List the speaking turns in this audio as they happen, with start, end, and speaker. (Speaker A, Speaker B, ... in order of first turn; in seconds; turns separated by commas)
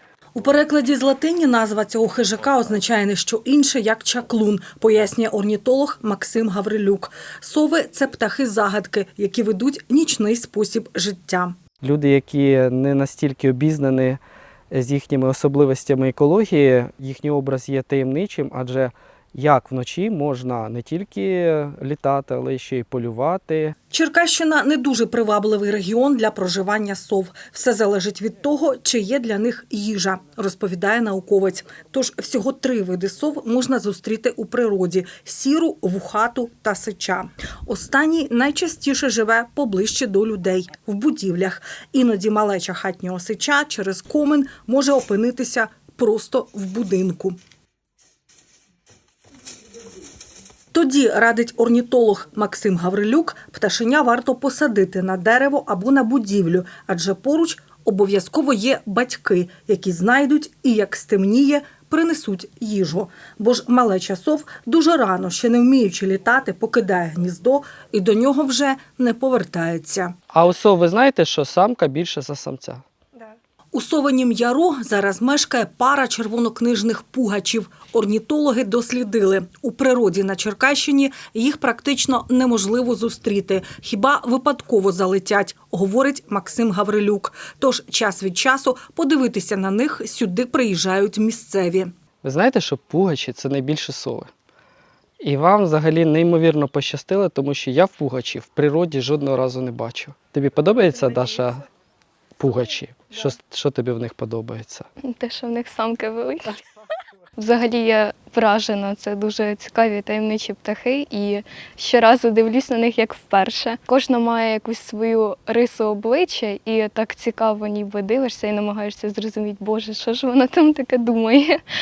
Speaker A: 0.3-11.6, Speaker B: 11.8-23.8, Speaker A: 23.9-47.4, Speaker A: 50.7-70.2, Speaker B: 70.3-72.8, Speaker A: 73.7-91.9, Speaker B: 92.2-94.3, Speaker B: 95.2-101.7, Speaker B: 102.4-104.9, Speaker C: 105.0-106.6, Speaker C: 107.4-121.6